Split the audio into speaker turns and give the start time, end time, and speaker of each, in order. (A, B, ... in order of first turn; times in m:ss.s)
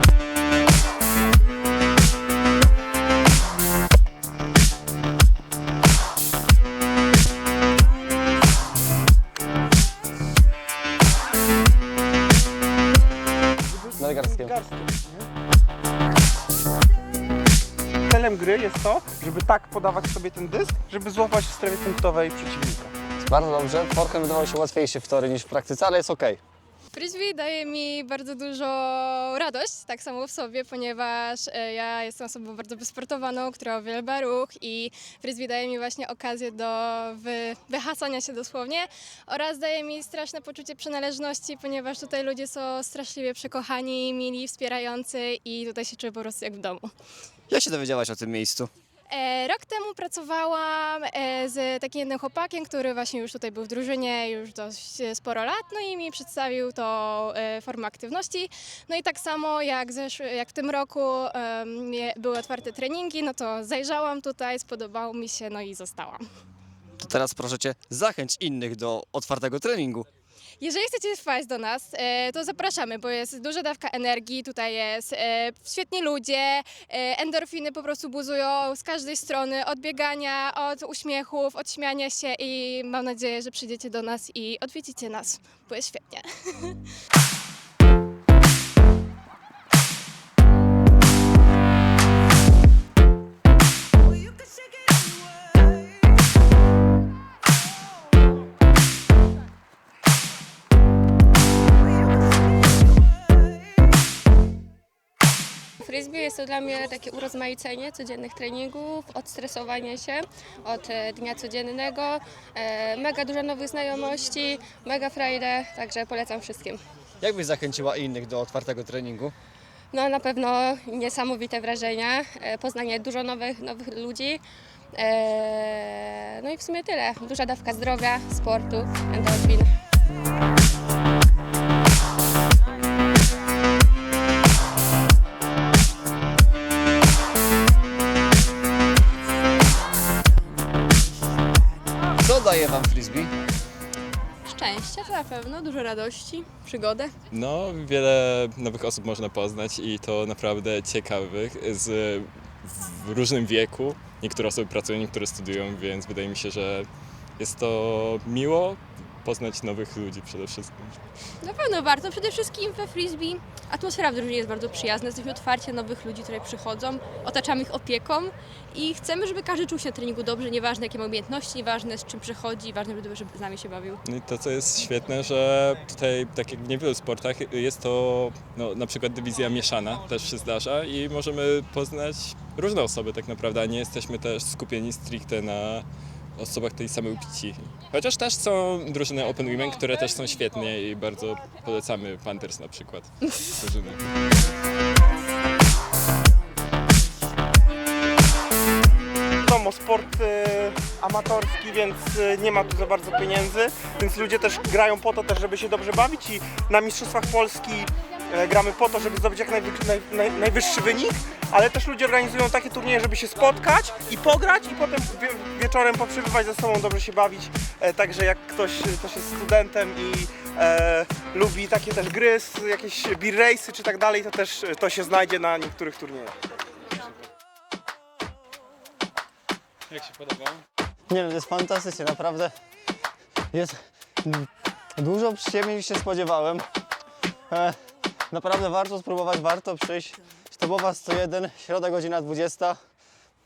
0:13.7-0:15.3 A
0:14.0-0:14.5 B
0:18.0-0:22.9 A
0:23.2-0:26.4 B
0:26.9-0:46.9 C
0:47.5-0:48.7 B
0:49.1-1:06.2 C
1:07.0-1:10.0 B
1:10.6-1:26.8 C
1:45.8-1:56.8 D
1:57.2-1:59.3 B
1:59.9-2:04.4 D
2:04.9-2:09.7 D
2:22.2-2:23.3 B
2:24.5-2:27.1 E
2:27.3-2:36.9 F
2:37.4-2:41.0 F
2:41.4-2:54.0 E
2:54.0-3:05.8 F
3:06.4-3:14.0 F
3:19.4-3:46.3 A
3:51.1-3:52.5 B
3:53.5-3:56.6 B
3:57.5-3:57.8 B
3:58.3-4:02.8 B